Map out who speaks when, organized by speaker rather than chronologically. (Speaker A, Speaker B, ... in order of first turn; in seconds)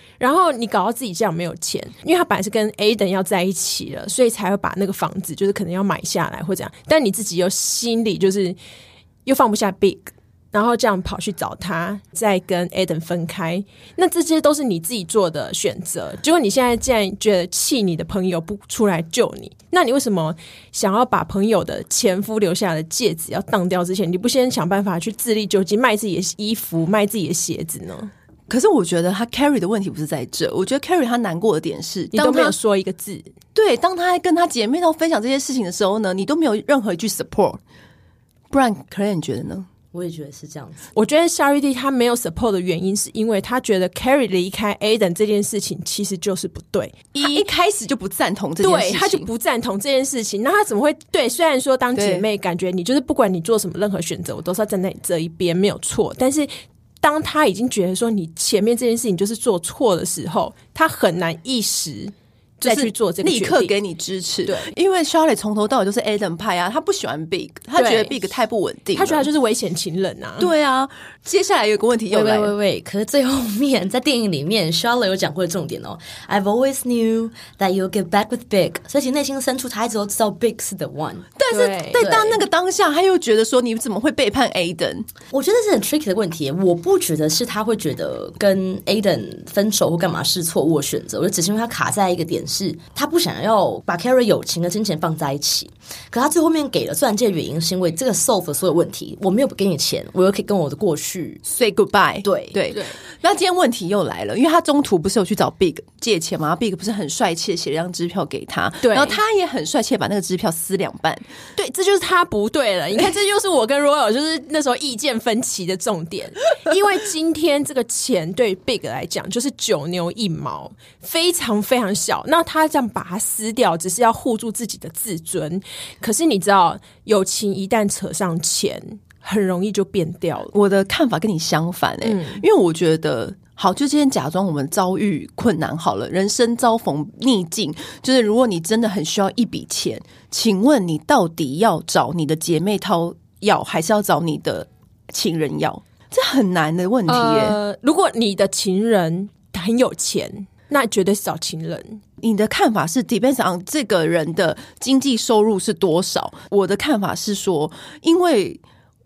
Speaker A: 0.2-8.6, 9.3-28.1, 32.1-33.3, 40.9-47.4, 48.6-63.7, 64.5-64.7, 67.8-68.2, 68.9-70.5, 81.5-82.1, 102.7-103.0, 108.8-109.2, 111.6-130.5, 132.0-132.4, 147.1-152.0
Speaker B: 28.5-32.5, 33.5-37.6, 38.5-39.7, 47.1-49.3, 52.0-52.2, 62.6-69.3, 70.4-72.5, 81.4-85.1, 101.5-111.2, 130.5-147.6, 152.2-158.6
Speaker C: 39.9-40.9, 72.1-81.3, 82.0-82.4, 85.3-101.4, 102.2-102.6